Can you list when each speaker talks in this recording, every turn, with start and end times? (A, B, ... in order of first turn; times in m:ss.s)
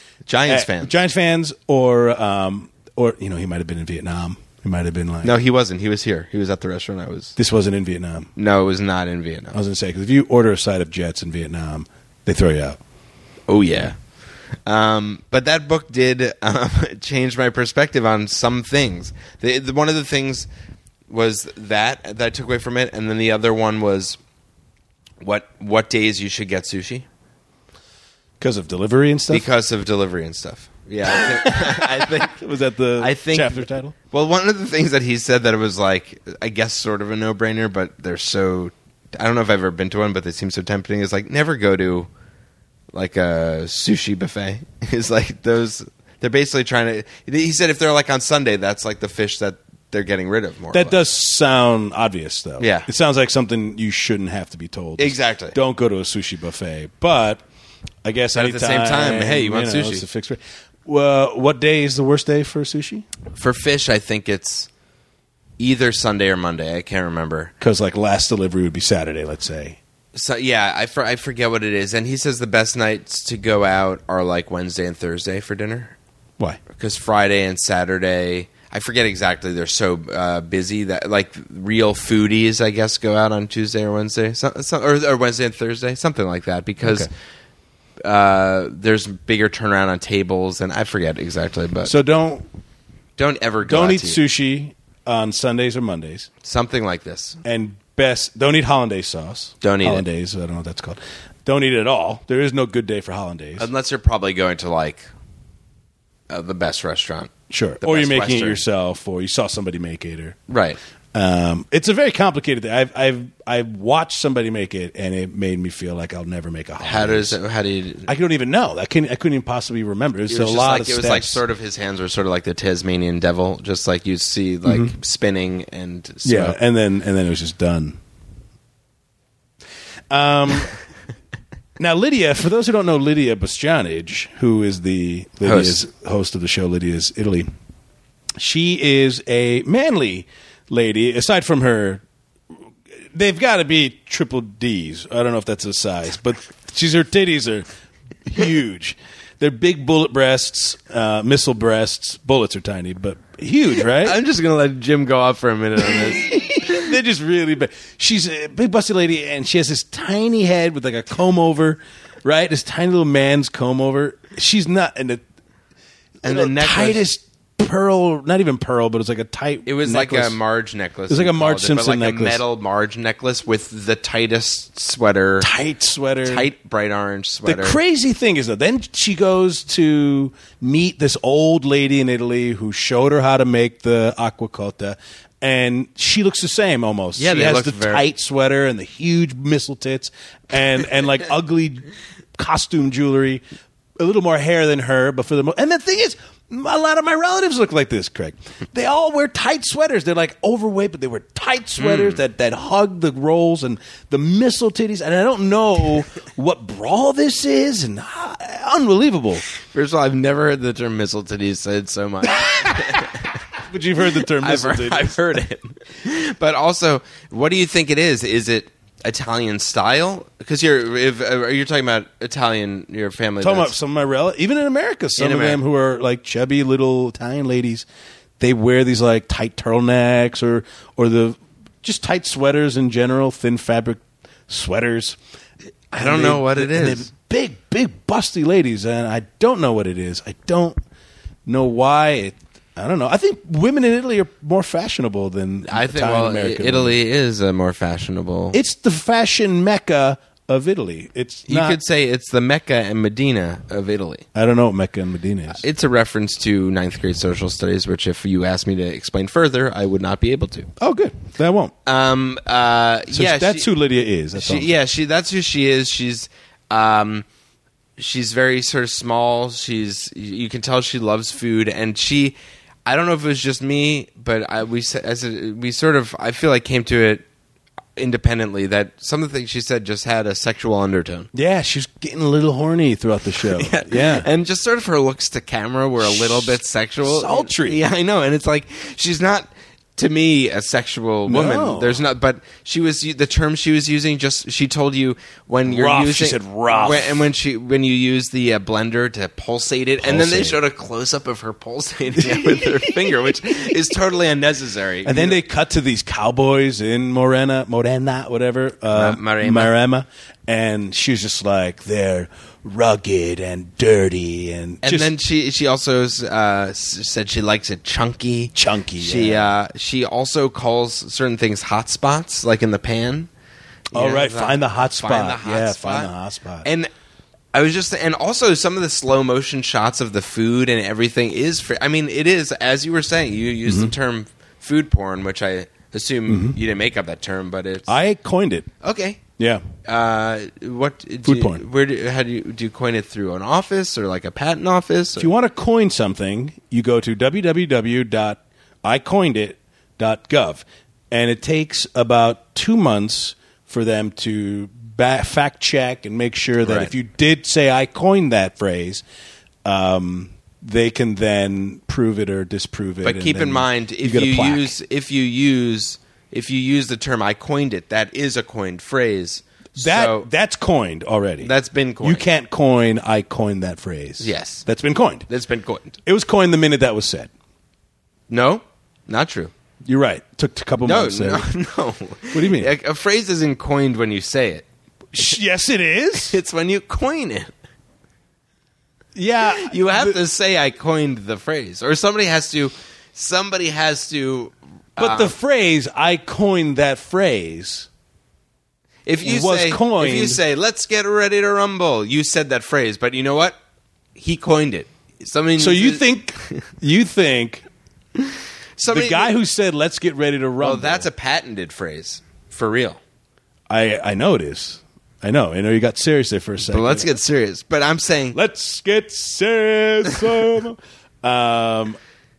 0:00.3-0:00.9 A
0:00.5-0:05.3 B
0:05.2-0:07.4 A
0:07.4-0:08.3 B
0:08.4-0:09.6 A
0:09.5-0:12.8 B
0:13.5-0:14.0 A
0:14.7-0:20.5 A
0:21.1-0:24.2 A
0:25.2-0:27.1 A
0:28.4-0:29.5 B
0:29.3-0:32.4 A
0:31.1-0:34.0 B
0:33.0-0:42.1 A
0:42.9-0:51.0 A
0:50.7-0:57.4 B
0:52.6-0:52.9 A
0:55.0-0:55.6 A
0:58.0-1:03.1 B
0:58.4-1:00.0 A
1:03.3-1:04.7 A
1:05.6-1:07.5 A
1:07.6-1:09.8 B
1:10.1-1:16.0 A
1:16.7-1:27.1 A
1:26.8-1:27.1 B
1:28.0-1:31.9 A
1:31.8-1:32.5 B
1:33.2-1:34.2 A
1:33.7-1:36.3 B
1:36.4-1:37.4 A
1:37.4-1:43.7 B
1:39.6-1:40.0 A
1:43.6-1:45.1 A
1:46.3-1:48.6 A
1:47.5-1:50.4 B
1:50.5-1:50.8 A
1:51.1-1:57.4 B
1:56.8-1:58.1 A
1:58.1-2:01.4 B
2:00.3-2:06.6 A
2:04.6-2:04.9 B
2:06.2-2:08.0 B
2:10.1-2:10.8 B
2:11.8-2:17.5 B
2:15.4-2:15.8 A
2:18.4-2:22.0 B
2:23.1-2:27.7 B
2:28.2-2:34.2 B
2:33.9-2:36.8 A
2:35.8-2:45.2 B
2:46.2-2:47.0 A
2:46.3-2:50.4 B
2:49.7-2:55.5 A
2:51.1-2:52.4 B
2:55.4-2:56.5 B
2:56.2-2:57.8 A
2:57.4-3:13.4 B
3:07.2-3:08.0 A
3:14.0-3:29.4 B
3:21.8-3:22.2 A
3:29.6-3:33.4 A
3:32.3-3:33.1 B
3:33.6-3:35.4 B
3:34.2-3:43.8 A
3:43.4-3:47.9 B
3:45.2-3:45.6 A
3:48.4-3:55.2 B
3:55.9-4:00.8 B
3:55.9-3:57.1 A
4:01.5-4:07.0 B
4:05.7-4:08.6 A
4:08.5-4:11.8 B
4:11.5-4:14.2 A
4:14.3-4:15.6 B
4:15.5-4:20.7 A
4:20.8-4:21.7 B
4:21.9-4:23.7 A
4:23.1-4:24.7 B
4:24.4-4:27.3 A
4:28.0-4:37.2 A
4:38.0-4:41.3 A
4:41.3-4:44.3 B
4:43.4-5:05.4 A
4:46.0-4:47.8 B
4:51.3-4:52.0 B
4:55.7-4:57.2 B
5:00.0-5:00.6 B
5:02.2-5:03.2 B
5:05.0-5:15.1 B
5:08.9-5:09.7 A
5:14.8-5:23.3 A
5:18.6-5:19.5 B
5:23.9-5:26.7 B
5:23.9-5:26.1 A
5:26.6-5:26.9 A
5:27.5-5:37.9 A
5:33.7-5:33.9 B
5:36.3-5:36.6 B
5:37.9-5:38.7 B
5:38.8-5:39.2 A
5:39.4-5:39.6 B
5:39.8-5:45.3 A
5:41.2-5:41.6 B
5:45.2-5:59.0 B
5:56.6-5:56.9 A
5:59.6-6:04.7 B
6:03.0-6:10.3 A
6:09.8-6:15.3 B
6:11.4-6:12.2 A
6:14.2-6:14.6 A
6:15.3-6:16.0 A
6:16.1-6:17.3 B
6:18.3-6:19.5 A
6:19.8-6:21.5 B
6:20.8-6:24.6 A
6:22.3-6:22.7 B
6:25.1-6:26.4 B
6:26.2-6:27.5 A
6:29.2-6:30.2 B
6:29.5-6:35.3 A
6:35.0-6:37.9 B
6:39.1-6:43.6 A
6:39.2-6:40.4 B
6:44.2-6:46.6 A
6:45.6-6:47.6 B
6:48.8-6:49.3 A
6:48.9-6:51.1 B
6:50.6-6:53.0 A
6:53.7-6:57.1 B
6:56.6-6:58.4 A
6:58.3-7:02.0 B